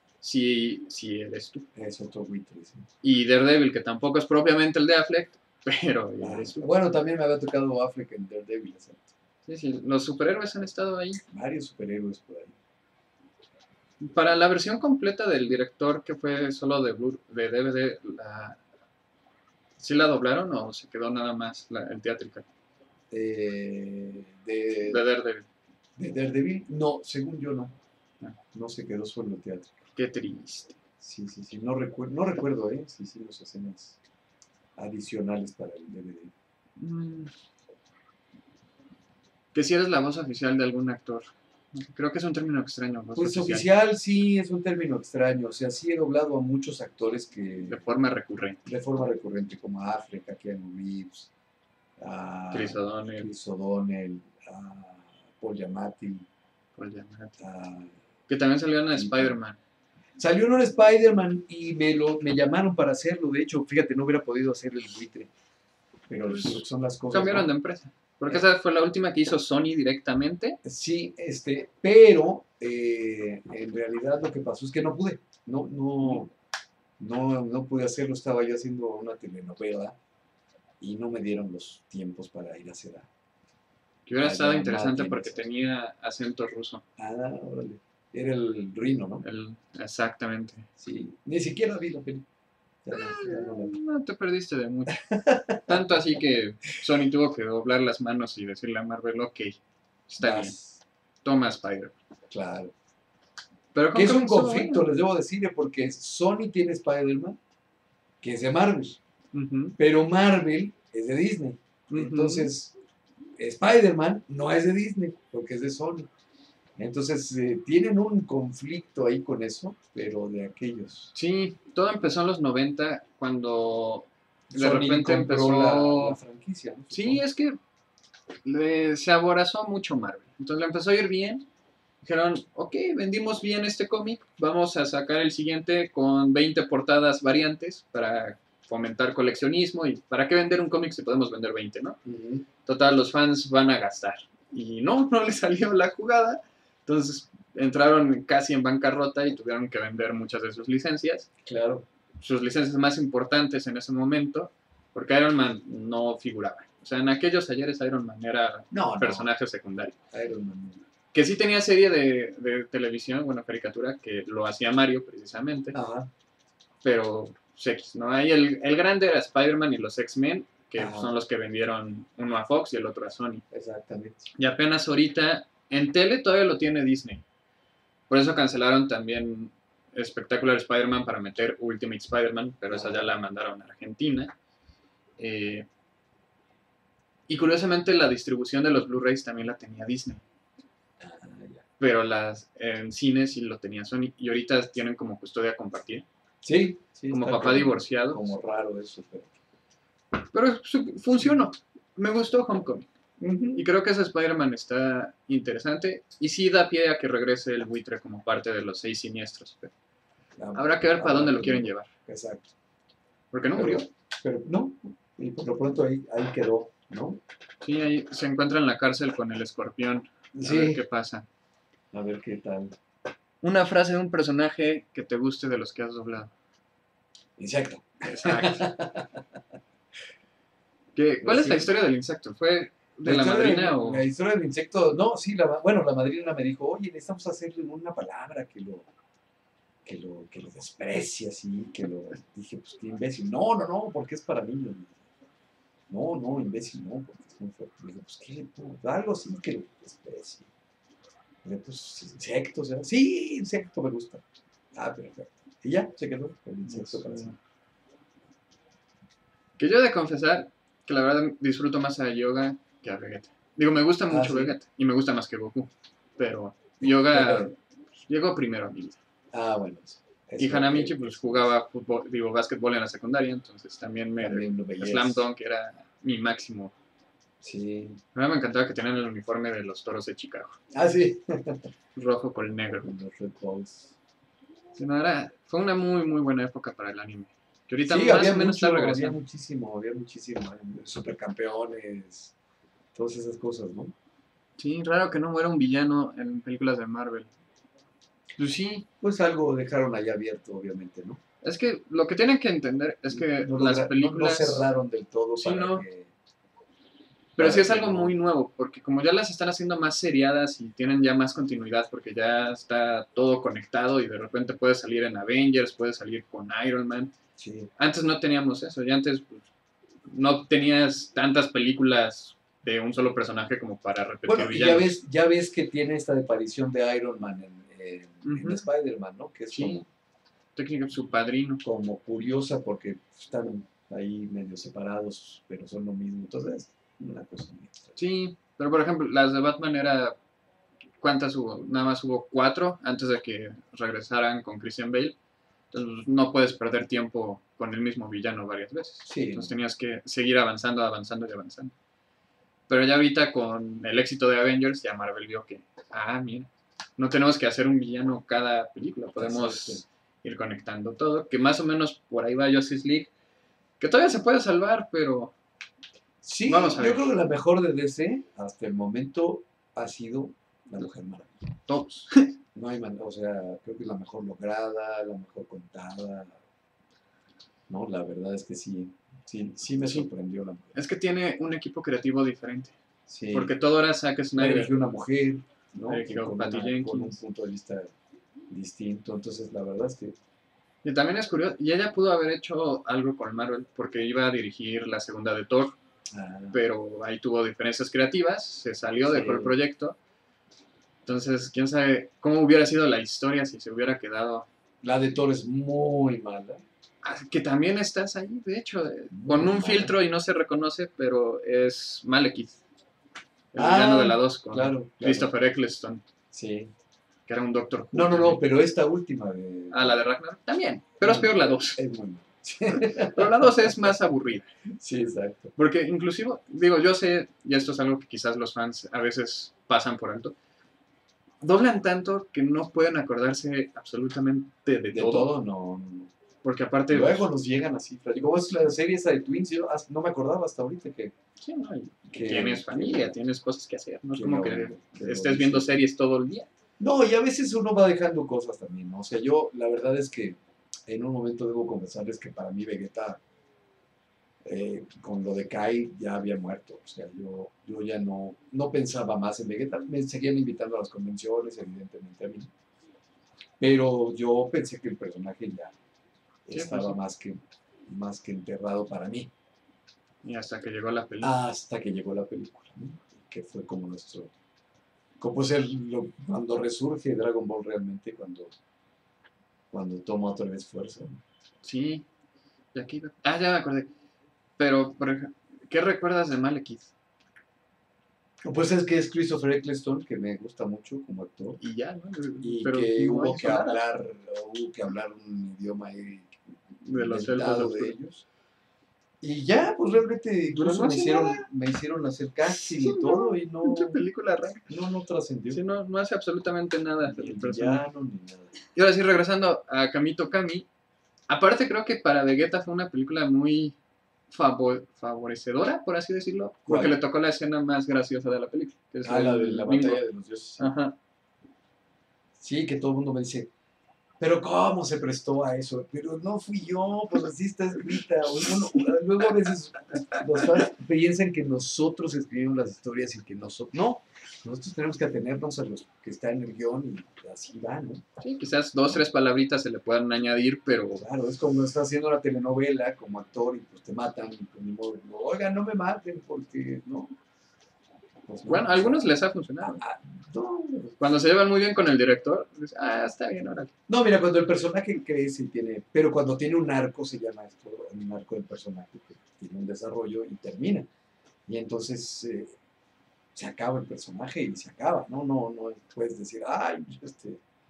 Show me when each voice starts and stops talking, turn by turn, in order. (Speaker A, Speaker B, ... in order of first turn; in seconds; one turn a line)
Speaker A: 0.2-1.7
Speaker B: 1.7-2.9
Speaker A: 3.0-6.7
Speaker B: 6.2-9.1
Speaker A: 9.4-11.2
Speaker B: 11.3-12.5
Speaker A: 14.0-18.6
Speaker A: 19.8-22.4
Speaker B: 23.1-25.0
Speaker A: 24.8-25.5
Speaker B: 26.0-27.8
Speaker B: 28.5-29.8
Speaker A: 29.9-30.8
Speaker B: 31.0-34.0
Speaker B: 34.8-36.3
Speaker A: 36.8-37.3
Speaker A: 39.5-43.7
Speaker B: 43.1-47.8
Speaker A: 47.7-48.6
Speaker B: 48.6-51.3
Speaker B: 52.0-56.3
Speaker A: 52.5-53.3
Speaker A: 56.8-57.3
Speaker B: 57.4-57.9
Speaker A: 58.3-59.6
Speaker B: 58.9-59.4
Speaker B: 60.2-65.3
Speaker B: 66.1-67.5
Speaker A: 66.3-70.6
Speaker B: 70.6-76.3
Speaker B: 77.0-80.0
Speaker B: 80.8-83.1
Speaker A: 84.0-86.8
Speaker B: 84.2-85.4
Speaker B: 87.0-89.2
Speaker A: 89.2-90.7
Speaker B: 90.8-92.2
Speaker B: 92.8-93.8
Speaker A: 92.9-95.0
Speaker B: 94.9-95.8
Speaker A: 95.6-100.5
Speaker B: 100.2-100.8
Speaker A: 101.2-102.0
Speaker B: 102.3-102.7
Speaker A: 103.7-104.8
Speaker B: 103.9-107.4
Speaker B: 108.2-109.0
Speaker A: 109.3-109.7
Speaker B: 109.8-112.8
Speaker A: 111.9-112.5
Speaker B: 113.4-116.1
Speaker B: 116.8-121.1
Speaker A: 121.1-126.2
Speaker B: 124.5-127.2
Speaker A: 126.9-127.6
Speaker A: 128.4-131.4
Speaker A: 132.0-142.0
Speaker B: 142.0-142.4
Speaker A: 142.6-151.3
Speaker B: 151.4-151.8
Speaker A: 152.2-159.9
Speaker B: 158.7-159.3
Speaker B: 160.1-160.8
Speaker A: 161.1-165.8
Speaker B: 165.7-166.1
Speaker A: 166.8-173.4
Speaker B: 170.8-171.1
Speaker B: 173.5-174.3
Speaker A: 174.3-177.2
Speaker A: 178.1-184.3
Speaker B: 182.7-183.1
Speaker A: 185.2-185.7
Speaker A: 187.3-190.2
Speaker B: 191.0-191.6
Speaker A: 191.8-196.1
Speaker B: 196.4-199.3
Speaker A: 197.1-198.3
Speaker A: 200.3-202.9
Speaker B: 203.2-203.7
Speaker A: 203.5-209.7
Speaker B: 210.4-212.5
Speaker A: 210.5-211.9
Speaker A: 213.3-213.9
Speaker B: 213.5-217.2
Speaker A: 217.6-221.2
Speaker B: 220.3-220.8
Speaker B: 221.9-222.8
Speaker A: 223.4-226.3
Speaker B: 227.4-229.2
Speaker A: 228.0-228.7
Speaker A: 230.9-234.1
Speaker B: 231.2-231.7
Speaker B: 233.0-238.9
Speaker B: 239.8-245.0
Speaker B: 245.9-250.5
Speaker B: 251.4-254.2
Speaker B: 254.7-257.3
Speaker A: 256.6-257.4
Speaker A: 259.6-267.6
Speaker B: 264.1-264.6
Speaker B: 266.8-267.5
Speaker A: 268.1-269.0
Speaker B: 269.3-271.5
Speaker A: 270.4-276.7
Speaker B: 274.2-275.3
Speaker B: 277.4-278.0
Speaker A: 278.1-280.6
Speaker B: 280.7-281.7
Speaker A: 281.9-282.9
Speaker B: 282.7-283.9
Speaker A: 284.7-289.2
Speaker B: 287.8-292.3
Speaker B: 292.9-293.9
Speaker A: 294.6-297.3
Speaker A: 298.4-298.9
Speaker B: 299.0-301.2
Speaker A: 301.4-304.7
Speaker B: 303.1-306.1
Speaker A: 305.4-305.9
Speaker A: 307.4-317.1
Speaker B: 307.4-308.1
Speaker B: 317.4-317.7
Speaker A: 317.8-319.5
Speaker A: 320.1-324.9
Speaker B: 324.3-329.9
Speaker A: 328.2-328.6
Speaker A: 329.5-329.8
Speaker A: 330.6-331.6
Speaker B: 331.6-337.9
Speaker A: 337.9-340.1
Speaker A: 341.0-345.2
Speaker A: 345.7-351.7
Speaker B: 349.0-349.5
Speaker A: 352.7-363.1
Speaker B: 359.2-359.8
Speaker A: 363.8-365.3
Speaker B: 366.2-371.4
Speaker A: 366.5-367.1
Speaker A: 371.7-372.3
Speaker B: 372.5-376.4
Speaker B: 377.7-380.8
Speaker A: 379.8-380.1
Speaker A: 380.7-382.8
Speaker B: 383.1-383.5
Speaker A: 383.3-384.7
Speaker B: 384.4-387.9
Speaker A: 385.9-387.2
Speaker B: 388.5-390.2
Speaker A: 390.8-395.8
Speaker B: 396.1-396.6
Speaker A: 396.5-400.0
Speaker B: 399.1-399.6
Speaker A: 401.0-404.5
Speaker B: 404.8-406.6
Speaker A: 407.0-412.6
Speaker B: 409.1-409.9
Speaker A: 413.5-416.0
Speaker B: 413.5-415.3
Speaker B: 416.3-416.7
Speaker A: 417.3-418.4
Speaker B: 417.9-420.0
Speaker A: 419.7-421.8
Speaker B: 421.0-423.9
Speaker A: 422.7-424.5
Speaker B: 424.8-425.5
Speaker A: 425.6-430.4
Speaker A: 431.4-435.3
Speaker B: 434.9-436.1
Speaker A: 436.4-437.3
Speaker B: 436.9-441.1
Speaker A: 441.4-446.5
Speaker B: 442.1-443.2
Speaker B: 444.1-445.7
Speaker B: 446.8-453.2
Speaker B: 454.4-462.5
Speaker B: 463.6-465.7
Speaker B: 466.4-469.3
Speaker A: 466.5-467.0
Speaker A: 470.2-471.4
Speaker B: 471.2-474.3
Speaker B: 475.2-478.5
Speaker B: 479.7-481.2
Speaker A: 481.6-482.1
Speaker A: 482.7-483.9
Speaker A: 484.6-486.9
Speaker B: 488.4-491.6
Speaker A: 491.6-493.9
Speaker B: 492.4-498.2
Speaker A: 496.8-497.9
Speaker B: 499.2-504.0
Speaker A: 500.5-501.4
Speaker A: 502.5-504.7
Speaker B: 504.7-505.6
Speaker A: 505.5-507.8
Speaker B: 507.1-508.5
Speaker A: 508.7-510.7
Speaker A: 511.3-513.8
Speaker A: 514.3-520.0
Speaker B: 516.6-517.0
Speaker B: 519.0-520.7
Speaker A: 520.6-521.0
Speaker B: 522.4-523.5
Speaker B: 524.2-538.0
Speaker A: 538.2-541.0
Speaker B: 540.9-547.1
Speaker B: 548.2-549.0
Speaker A: 548.5-549.8
Speaker B: 549.6-550.9
Speaker A: 551.0-553.7
Speaker B: 553.9-560.9
Speaker B: 561.5-562.5
Speaker B: 563.3-567.4